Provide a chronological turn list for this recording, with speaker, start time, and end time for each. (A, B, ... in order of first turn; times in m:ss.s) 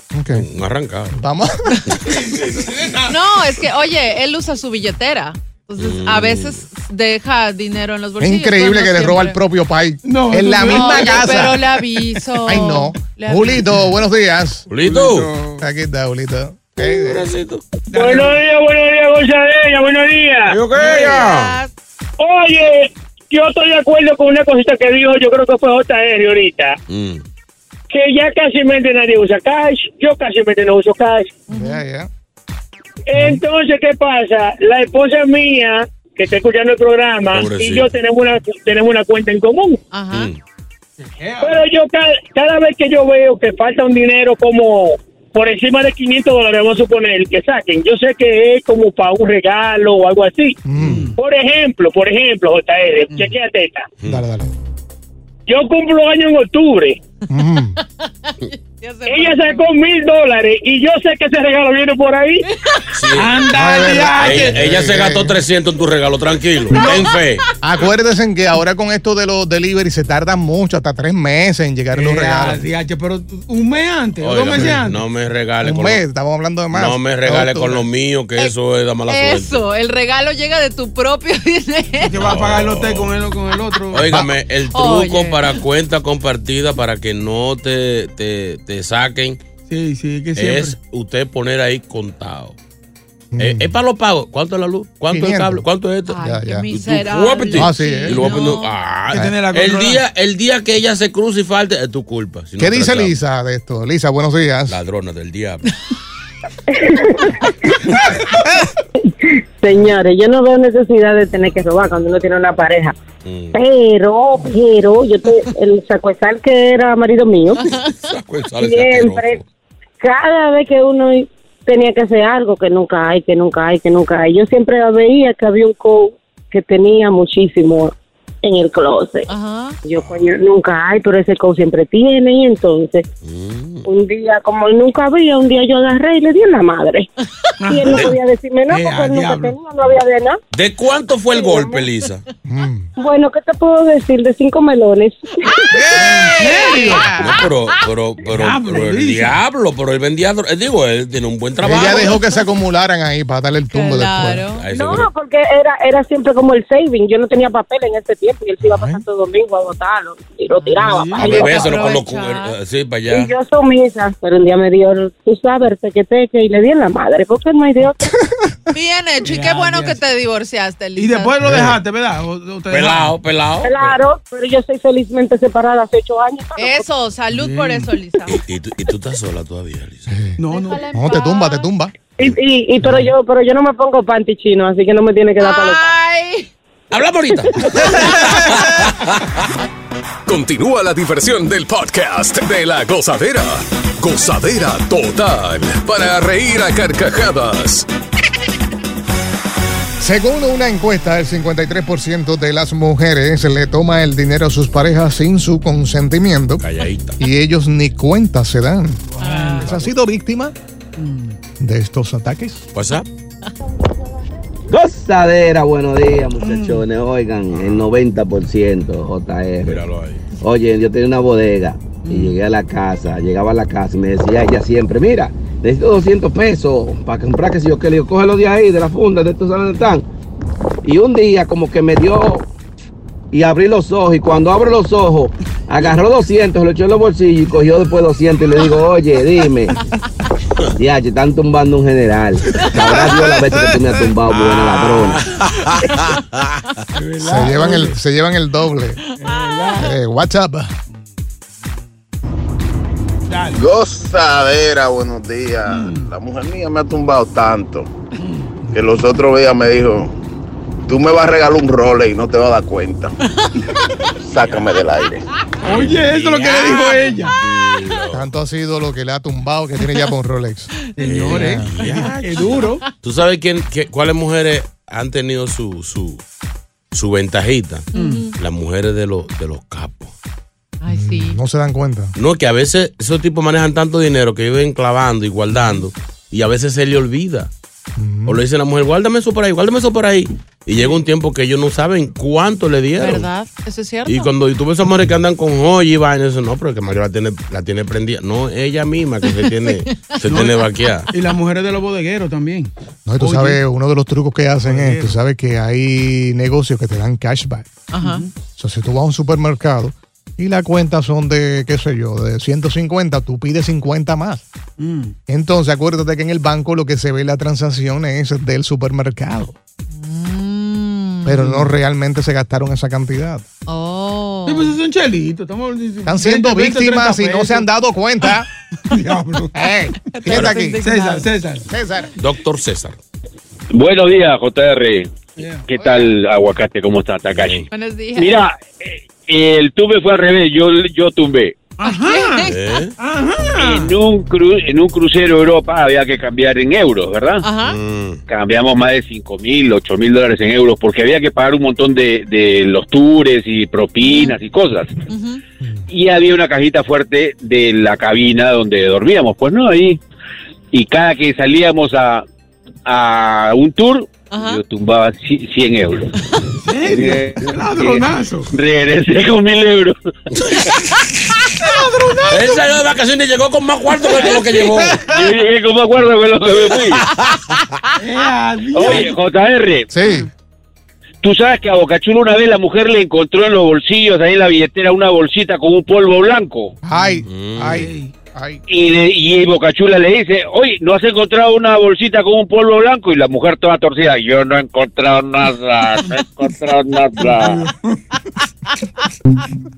0:00.1-0:00.5 A
0:00.3-0:01.2 B
0:01.2-0:02.2 A
0:02.1-0:03.2 C
0:03.1-0:09.4 D
0:05.8-0:06.6 B
0:08.2-0:11.8 A
0:10.0-0:11.4 C
0:10.7-0:13.7 D
0:12.4-0:14.7 A
0:14.7-0:15.3 B
0:14.8-0:15.6 C
0:15.6-0:17.3 A
0:16.8-0:17.6 B
0:17.9-0:18.4 C
0:17.9-0:20.6 E
0:20.5-0:21.6 B
0:20.7-0:21.7 D
0:20.8-0:21.2 C
0:22.2-0:26.8 E
0:26.9-0:27.2 B
0:27.9-0:31.4 E
0:31.5-0:31.8 D
0:31.5-0:32.1 A
0:33.1-0:39.8 E
0:37.3-0:37.9 B
0:39.9-0:40.3 D
0:40.1-0:40.4 B
0:41.0-0:41.7 C
0:41.4-0:50.6 E
0:50.7-0:51.1 A
0:50.8-0:51.1 B
0:51.2-0:53.9 E
0:54.0-0:54.5 A
0:55.5-0:57.0 E
0:57.3-0:57.8 A
0:58.3-0:59.7 D
0:59.1-1:02.5 E
1:02.5-1:03.1 D
1:02.9-1:03.4 B
1:03.2-1:04.7 C
1:03.5-1:05.4 A
1:04.1-1:07.4 B
1:06.7-1:07.2 D
1:07.6-1:12.6 A
1:11.9-1:15.0 C
1:14.2-1:16.0 B
1:15.6-1:17.8 A
1:16.7-1:19.7 B
1:19.1-1:22.3 D
1:22.0-1:24.2 C
1:22.1-1:23.2 B
1:23.9-1:29.4 B
1:24.7-1:25.6 D
1:29.7-1:30.8 C
1:30.4-1:32.6 B
1:33.3-1:33.7 A
1:33.4-1:36.2 B
1:35.1-1:35.6 A
1:36.1-1:38.7 D
1:36.2-1:36.7 A
1:36.7-1:43.2 B
1:37.5-1:38.4 A
1:39.1-1:40.0 C
1:42.6-1:44.8 A
1:44.7-1:45.7 B
1:46.7-1:47.4 F
1:49.6-1:53.0 F
1:53.2-1:53.6 B
1:53.5-1:57.7 F
1:58.0-1:59.4 B
1:58.6-1:59.4 F
2:00.0-2:09.3 F
2:09.3-2:09.8 D
2:09.9-2:13.1 F
2:10.0-2:10.2 B
2:13.2-2:13.9 B
2:13.8-2:17.1 F
2:17.6-2:18.2 C
2:17.7-2:20.4 F
2:18.7-2:19.6 C
2:20.5-2:22.2 B
2:21.3-2:21.8 F
2:22.5-2:22.9 A
2:23.0-2:25.6 F
2:25.5-2:27.8 D
2:25.8-2:27.2 C
2:27.0-2:32.2 B
2:28.3-2:29.4 C
2:31.6-2:34.5 A
2:31.9-2:32.4 D
2:33.7-2:34.6 D
2:34.6-2:35.1 B
2:34.7-2:41.7 F
2:38.6-2:39.0 A
2:40.6-2:42.6 D
2:40.9-2:41.4 C
2:41.2-2:43.3 B
2:43.1-2:48.0 F
2:48.7-2:51.4 D
2:49.3-2:50.0 C
2:51.0-2:53.2 C
2:51.4-2:51.8 A
2:52.7-2:54.0 B
2:53.6-2:56.8 F
2:56.6-2:58.4 D
2:57.3-2:57.9 C
2:58.3-3:00.2 B
3:00.1-3:00.4 A
3:00.4-3:00.8 C
3:00.5-3:01.7 D
3:00.9-3:01.9 A
3:02.2-3:05.9 F
3:02.8-3:03.1 A
3:05.4-3:06.5 D
3:06.9-3:09.2 B
3:10.3-3:17.9 G
3:20.0-3:26.6 A
3:26.6-3:27.2 B
3:27.2-3:29.0 A
3:29.2-3:29.7 C
3:29.2-3:29.8 D
3:29.6-3:30.5 A
3:31.0-3:31.4 C
3:31.6-3:32.6 A
3:32.7-3:33.1 B
3:34.7-3:39.8 H
3:36.4-3:36.8 C
3:37.5-3:37.8 B
3:39.6-3:40.2 B
3:40.4-3:50.0 H
3:42.0-3:42.4 C
3:50.8-3:52.5 H
3:53.3-3:59.8 H
4:00.8-4:05.3 H
4:02.9-4:04.1 C
4:04.3-4:06.2 B
4:07.0-4:08.0 C
4:07.2-4:09.0 A
4:09.2-4:10.0 D
4:09.2-4:09.9 C
4:09.7-4:10.7 A
4:13.3-4:13.6 C
4:13.5-4:17.9 I
4:15.7-4:16.1 C
4:18.2-4:18.5 C
4:18.7-4:20.1 I
4:20.9-4:23.1 I
4:23.4-4:24.1 D
4:24.2-4:25.2 I
4:25.6-4:27.4 C
4:25.6-4:28.3 B
4:26.7-4:27.3 D
4:28.1-4:31.7 A
4:31.0-4:32.8 C
4:31.0-4:36.2 B
4:36.9-4:40.1 B
4:37.9-4:38.4 D
4:38.0-4:38.3 C
4:40.8-4:41.4 D
4:40.9-4:42.1 A
4:42.2-4:47.5 B
4:48.0-4:48.4 A
4:48.3-4:53.3 B
4:53.0-4:54.3 D
4:54.1-5:01.1 B
4:59.3-5:00.2 D
5:00.3-5:03.6 C
5:03.1-5:07.8 A
5:04.6-5:05.2 C
5:07.9-5:08.3 D
5:08.6-5:14.4 A
5:14.8-5:15.2 C
5:15.3-5:19.6 A
5:20.0-5:21.4 D
5:21.3-5:23.4 A
5:21.4-5:21.7 C
5:23.7-5:24.8 D
5:24.5-5:27.7 C
5:26.0-5:28.5 A
5:28.9-5:29.6 C
5:29.5-5:30.8 A
5:30.1-5:31.4 D
5:30.8-5:31.7 C
5:31.7-5:32.1 A
5:32.2-5:33.0 B
5:33.7-5:37.6 J
5:35.4-5:35.7 C
5:37.3-5:37.7 B
5:37.7-5:38.4 D
5:38.2-5:41.6 J
5:41.8-5:42.4 C
5:41.8-5:42.8 D
5:42.4-5:42.9 B
5:43.0-5:44.0 C
5:43.6-5:47.4 J
5:47.4-5:47.8 D
5:47.6-5:48.2 B
5:48.3-5:55.0 J
5:54.0-5:54.4 D
5:55.1-5:55.4 D
5:55.9-6:00.0 J
6:00.7-6:02.2 J
6:02.9-6:06.1 J
6:04.3-6:04.6 D
6:06.6-6:08.5 C
6:06.8-6:10.0 J
6:11.5-6:12.7 C
6:12.3-6:15.0 B
6:14.1-6:15.3 C
6:15.1-6:17.0 J
6:18.0-6:19.2 C
6:18.7-6:19.9 J
6:19.9-6:20.3 A
6:21.2-6:26.8 J
6:26.8-6:28.6 A
6:26.9-6:28.1 C
6:27.3-6:27.8 B
6:28.7-6:37.7 J
6:37.2-6:38.0 C